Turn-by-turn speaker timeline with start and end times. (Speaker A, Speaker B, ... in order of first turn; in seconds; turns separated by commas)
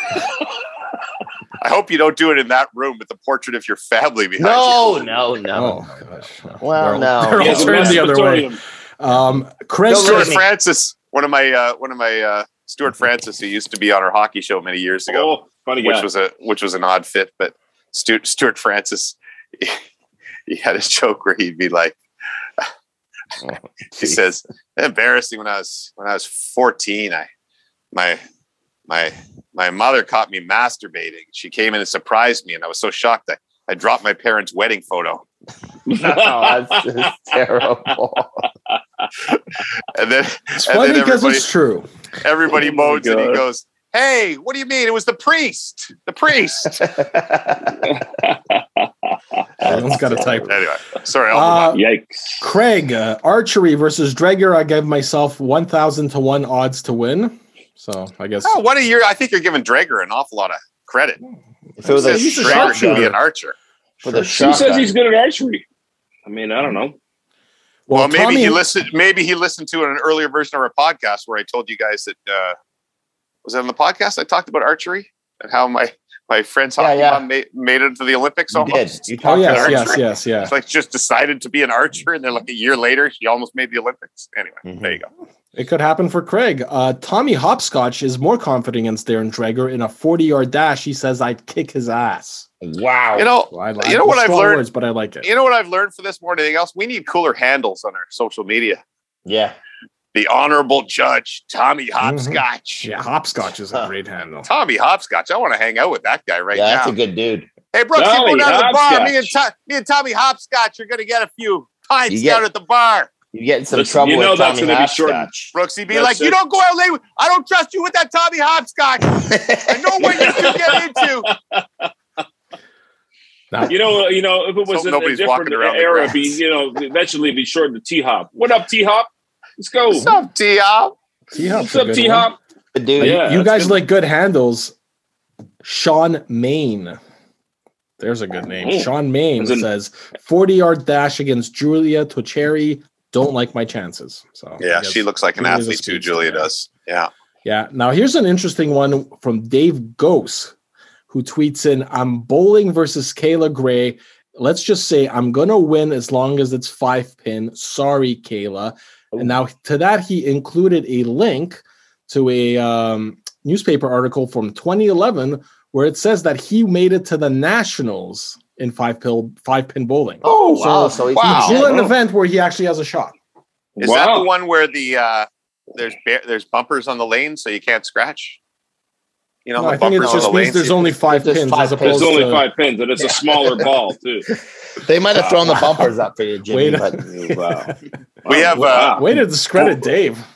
Speaker A: 1.6-5.2, Speaker B: 4.4-5.9, Speaker C: 5.5-10.4, Speaker B: 6.6-8.1, Speaker D: 7.4-8.6, Speaker B: 9.9-10.5, Speaker A: 9.9-19.8, Speaker D: 15.1-16.1, Speaker A: 20.5-22.0, Speaker B: 23.4-24.2, Speaker A: 24.0-27.3, Speaker A: 27.9-28.2, Speaker A: 28.9-35.2, Speaker D: 35.9-37.1, Speaker B: 35.9-38.4, Speaker A: 39.9-41.5, Speaker C: 40.6-41.9, Speaker A: 42.2-47.0, Speaker D: 42.5-43.4, Speaker B: 46.8-47.9, Speaker D: 47.8-48.9, Speaker B: 49.6-50.5, Speaker C: 49.6-50.6, Speaker A: 50.5-51.8, Speaker C: 51.3-51.8, Speaker D: 51.7-52.4, Speaker C: 52.4-58.6, Speaker A: 58.4-61.2, Speaker C: 61.8-63.1, Speaker B: 61.8-63.1, Speaker A: 61.9-63.5, Speaker B: 64.0-64.9, Speaker C: 64.0-64.7, Speaker D: 64.4-65.6, Speaker D: 66.3-67.0, Speaker C: 67.9-68.6, Speaker A: 67.9-72.6, Speaker A: 73.5-85.1, Speaker B: 76.8-77.3, Speaker B: 78.5-80.0, Speaker C: 79.2-80.5, Speaker B: 84.6-85.0, Speaker C: 85.5-92.5, Speaker B: 92.6-93.3, Speaker A: 93.2-94.7, Speaker C: 93.5-95.3, Speaker A: 95.2-98.8, Speaker B: 99.3-99.6, Speaker A: 100.1-102.9, Speaker C: 102.0-104.5, Speaker A: 104.5-106.9, Speaker B: 106.5-107.5, Speaker A: 107.7-113.1, Speaker D: 108.0-109.3, Speaker B: 112.1-112.4, Speaker B: 113.3-115.5, Speaker D: 113.7-115.3, Speaker A: 115.5-121.3, Speaker D: 115.9-116.4, Speaker B: 119.2-120.3, Speaker D: 120.0-121.9, Speaker D: 123.7-130.1, Speaker A: 124.7-126.4, Speaker A: 130.0-130.9, Speaker C: 131.3-132.3, Speaker D: 131.4-132.4, Speaker B: 132.7-133.2, Speaker D: 133.0-133.8, Speaker C: 133.0-134.7, Speaker C: 135.6-137.0, Speaker C: 138.0-146.5, Speaker D: 138.6-139.7, Speaker A: 144.6-147.1, Speaker C: 147.4-150.5, Speaker C: 151.1-173.1, Speaker B: 170.2-171.7, Speaker A: 171.2-171.6, Speaker D: 171.6-171.9, Speaker D: 173.8-174.3, Speaker A: 173.8-178.4, Speaker A: 179.5-180.9, Speaker C: 179.6-182.5, Speaker B: 180.0-182.3, Speaker D: 181.8-184.3, Speaker B: 184.8-187.0, Speaker D: 185.2-185.6, Speaker C: 186.5-187.7, Speaker D: 187.1-189.1, Speaker A: 188.3-189.0, Speaker C: 188.9-190.2